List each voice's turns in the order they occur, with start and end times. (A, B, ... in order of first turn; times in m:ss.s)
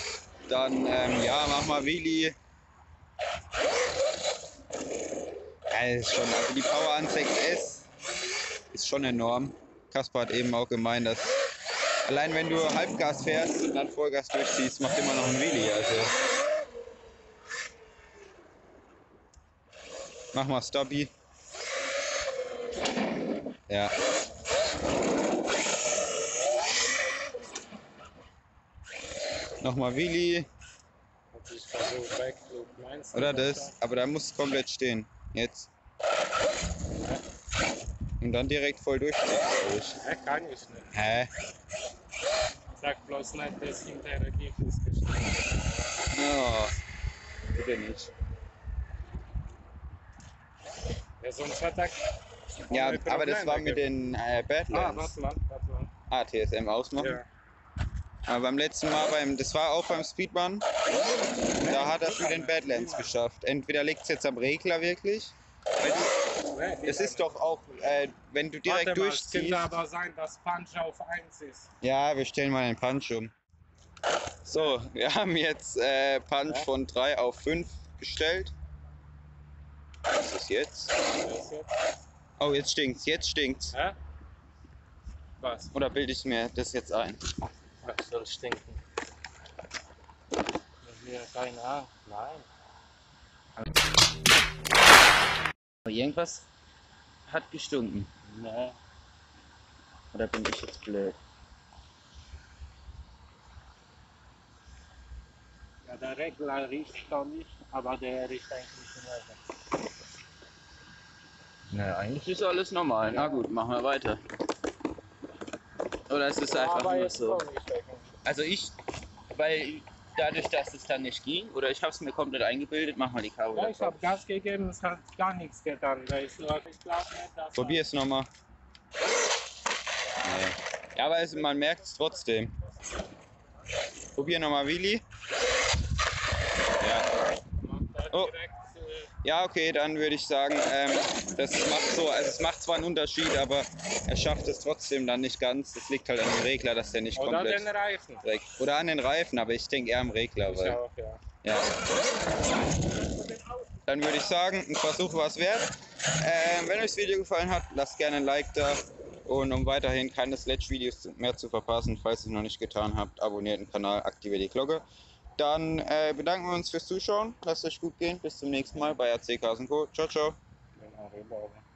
0:00.5-0:02.4 A
0:05.7-0:07.9 A
0:08.7-0:11.4 A
0:12.1-0:16.1 A
0:20.3-0:21.1 A
0:29.6-0:30.5 A
0:31.3-0:33.8 B
0:33.1-0:35.7 A
0:38.2-0:40.0 A
0:40.0-0:40.9 B
0:40.9-0:41.3 A
0:42.8-0:46.1 B
0:46.1-0:46.8 A
0:47.5-0:48.1 A
0:51.2-0:52.1 B
0:52.7-0:53.9 B
0:52.7-0:55.2 A
0:54.7-0:55.9 B
0:56.1-0:57.2 A
0:57.0-0:57.2 B
0:58.3-1:00.7 A
1:01.6-1:03.2 B
1:01.6-1:06.1 A
1:05.9-1:07.5 B
1:06.9-1:09.7 A
1:08.7-1:11.7 B
1:11.8-1:13.3 A
1:14.4-1:18.5 A
1:14.5-1:14.8 B
1:20.1-1:20.9 A
1:21.1-1:21.7 B
1:22.4-1:23.7 A
1:25.4-1:25.7 B
1:25.7-1:27.2 A
1:27.8-1:28.8 B
1:30.8-1:32.5 B
1:35.8-1:36.5 A
1:37.3-1:38.1 A
1:38.2-1:38.8 B
1:40.1-1:41.2 A
1:45.9-1:49.4 B
1:51.7-1:54.2 A
1:53.1-1:53.5 B
1:56.1-1:57.4 A
1:56.4-1:58.1 B
1:58.2-1:58.8 A
1:59.3-2:04.0 A
2:03.5-2:07.8 B
2:07.6-2:08.3 A
2:10.2-2:12.6 A
2:14.2-2:15.0 A
2:16.8-2:17.1 A
2:17.6-2:19.1 B
2:19.2-2:27.7 A
2:27.2-2:28.3 B
2:28.2-2:30.8 A
2:30.4-2:31.2 B
2:31.4-2:31.8 A
2:33.9-2:44.8 A
2:45.4-2:50.4 A
2:50.8-2:51.6 B